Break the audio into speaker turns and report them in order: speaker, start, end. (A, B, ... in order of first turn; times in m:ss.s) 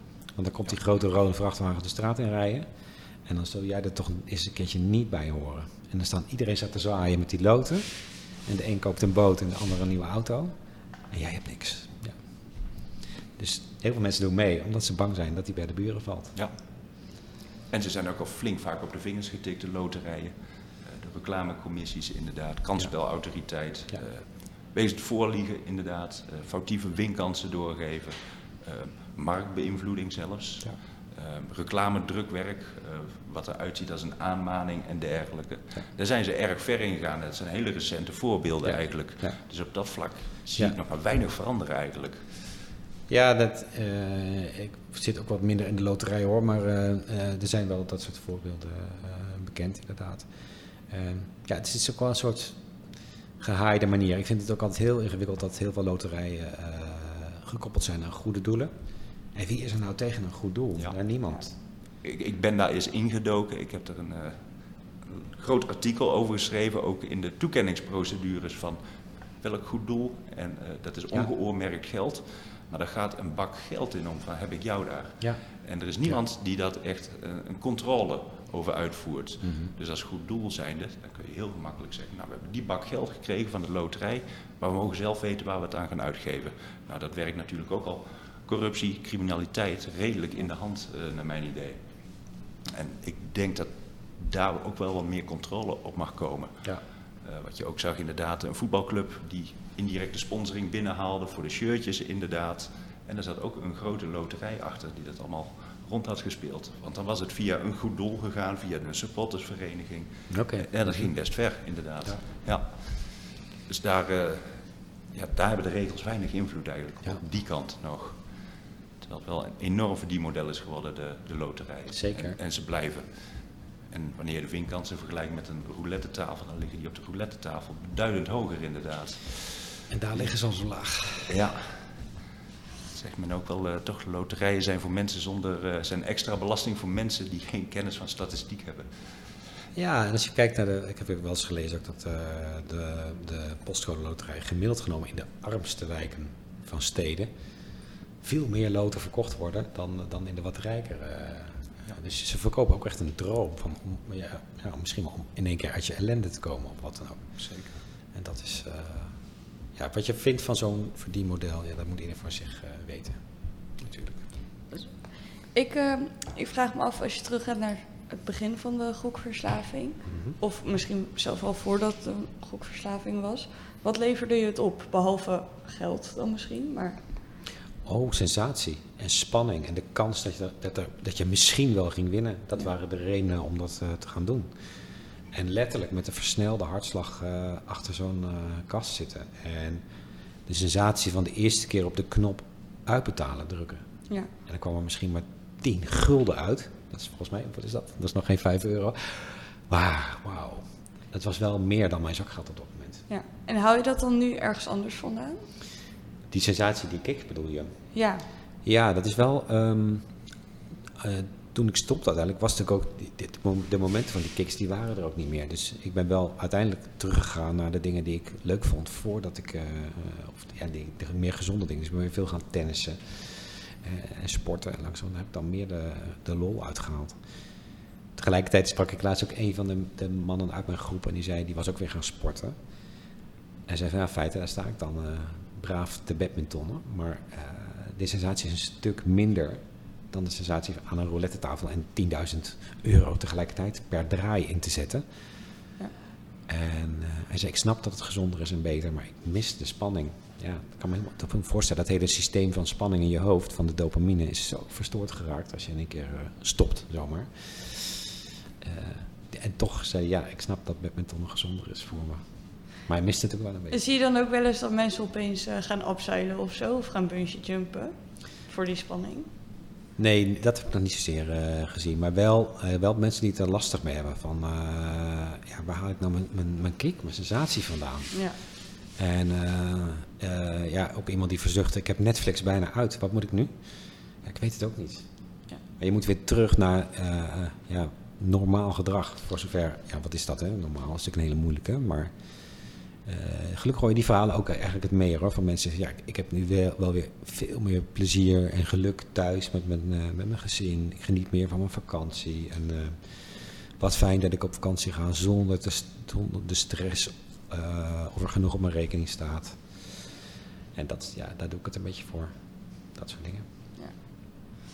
0:00.3-0:02.7 A
0:03.2-0:10.5 A
0:11.1-0:16.3 A
0:17.7-0:42.3 B
0:38.6-0:39.3 A
0:43.1-0:50.3 A
0:50.9-0:52.6 A
0:53.4-0:58.7 A
0:59.3-1:01.5 A
1:02.0-1:04.4 B
1:05.0-1:08.8 B
1:09.4-1:31.8 B
1:19.4-1:19.7 A
1:32.7-1:36.7 B
1:37.2-1:58.3 B
1:50.3-1:51.1 A
1:59.0-2:10.3 B
2:01.9-2:02.4 A
2:09.9-2:11.4 A
2:11.3-2:12.1 B
2:12.9-2:19.0 B
2:19.7-2:27.3 A
2:28.2-2:37.4 A
2:37.4-2:37.8 B
2:38.1-2:43.7 A
2:43.8-2:44.2 B
2:44.7-2:57.0 C
2:50.0-2:50.4 A
2:57.8-3:04.7 A
3:05.3-3:09.8 A
3:10.4-3:13.8 A
3:14.4-3:23.0 A
3:23.1-3:25.4 C
3:26.3-3:27.8 A
3:27.9-3:28.2 C
3:28.6-3:30.1 A
3:31.0-3:47.2 A
3:48.2-3:52.6 A
3:53.7-4:05.0 A
4:06.5-4:23.8 A
4:23.7-4:29.3 C
4:30.0-4:45.1 A
4:38.1-4:38.4 C
4:45.8-4:52.1 A
4:52.6-5:10.2 A
5:10.7-5:13.4 A
5:13.8-5:14.5 C